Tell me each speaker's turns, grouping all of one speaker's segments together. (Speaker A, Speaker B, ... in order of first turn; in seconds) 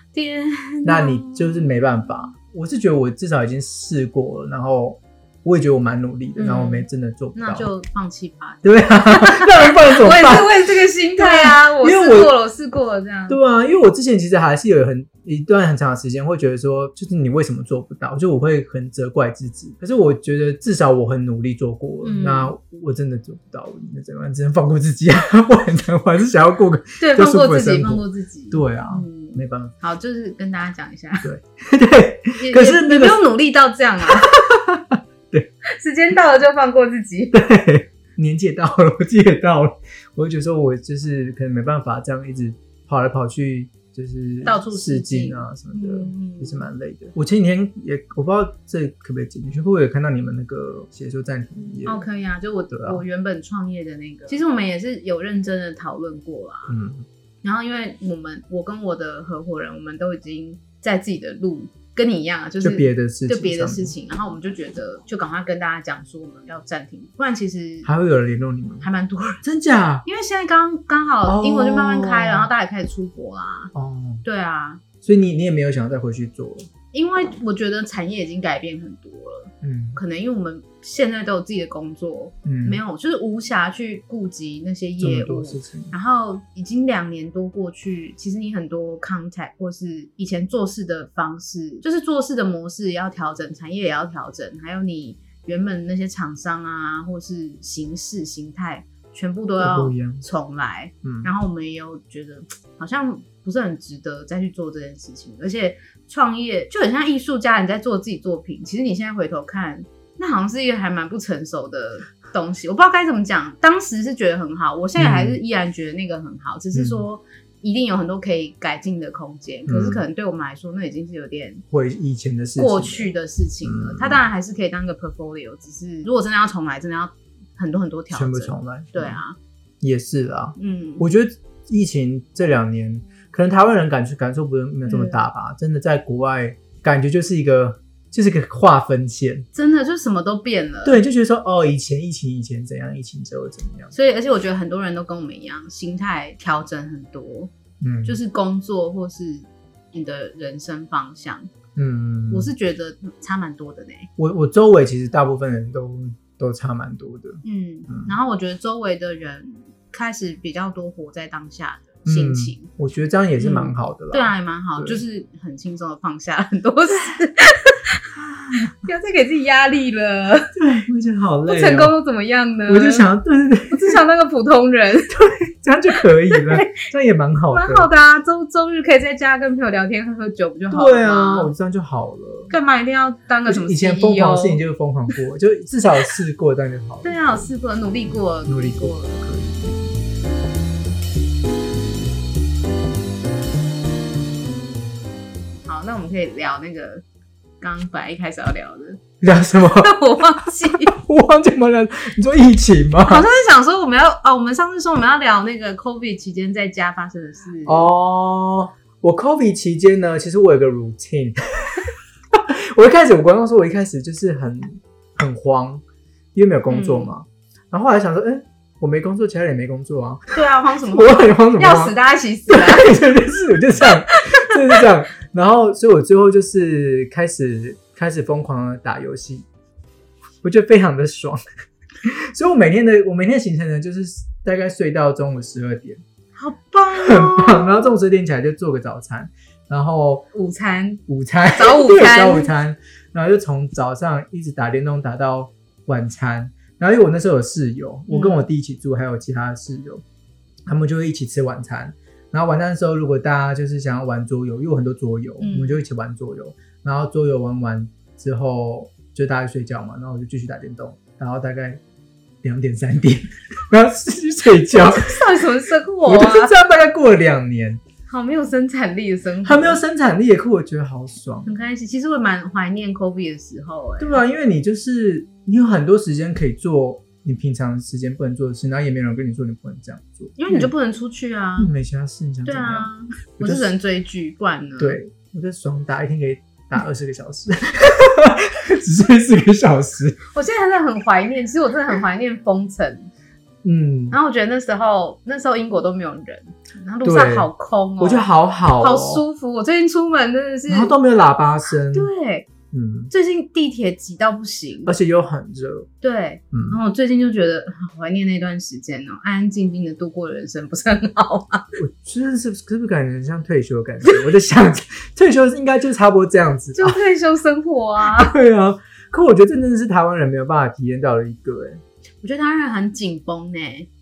Speaker A: 0.1-2.3, 6.4-13.4, 22.0-22.5, 27.0-31.3, 32.4-34.3, 35.7-37.4, 44.4-46.7, 51.9-56.8, 57.4-67.9, 68.8-69.4, 70.0-73.7, 74.2-74.8, 76.9-121.6, 122.6-129.4, 130.6-131.1, 134.8-135.2, 139.5-141.0, 143.9-147.5, 148.1-151.5, 152.3-154.1, 157.4-162.7, 163.4-168.0, 168.8-170.6, 171.5-173.1, 173.7-175.2, 176.3-176.8, 177.5-181.5, 182.5-184.6, 187.0-189.2, 195.7-197.0, 197.6-199.0, 199.8-200.9, 203.1-207.9, 216.7-217.1, 220.3-222.9, 224.1-224.8, 236.4-237.9, 240.3-241.0, 241.5-242.5, 248.1-248.5, 255.4-255.8, 264.7-266.5, 268.1-269.8, 271.5-274.2, 280.4-281.7, 282.4-285.0, 290.3-293.1, 294.1-298.3, 298.8-300.9, 301.9-302.5, 303.1-304.9, 306.0-311.8, 316.8-318.3, 322.2-323.9
Speaker B: 0.8-7.7, 8.6-10.5, 11.2-12.3, 13.3-29.7, 31.2-33.2, 34.1-35.5, 37.3-52.1, 52.7-53.0, 56.7-57.1, 62.6-64.0, 67.8-68.9, 69.4-70.0, 71.3-72.5, 73.7-74.2, 75.0-76.7, 79.6-80.0, 82.5-82.8, 85.0-85.9, 99.6-100.2, 101.0-101.3, 115.0-115.4, 116.7-117.0, 119.7-120.0, 121.7-123.1, 123.6-124.2, 128.1-129.2, 129.8-139.5, 140.8-143.9, 147.8-148.2, 151.8-152.5, 154.2-158.1, 162.1-165.0, 168.1-168.8, 170.6-171.9, 172.7-174.0, 175.1-177.9, 180.7-182.5, 183.5-187.5, 188.1-190.0, 199.2-199.9, 200.8-203.3, 207.7-215.8, 216.3-220.3, 220.9-222.0, 222.5-229.5, 230.4-231.4, 232.0-236.0, 236.9-240.3, 241.1-250.0, 250.7-261.8, 262.4-265.3, 266.1-267.8, 269.4-271.5, 274.0-280.7, 281.6-283.7, 284.8-290.2, 293.6-294.2, 297.0-299.2, 300.7-302.1, 302.7-303.1, 304.9-305.9, 306.5-306.8, 311.8-317.0, 318.0-321.8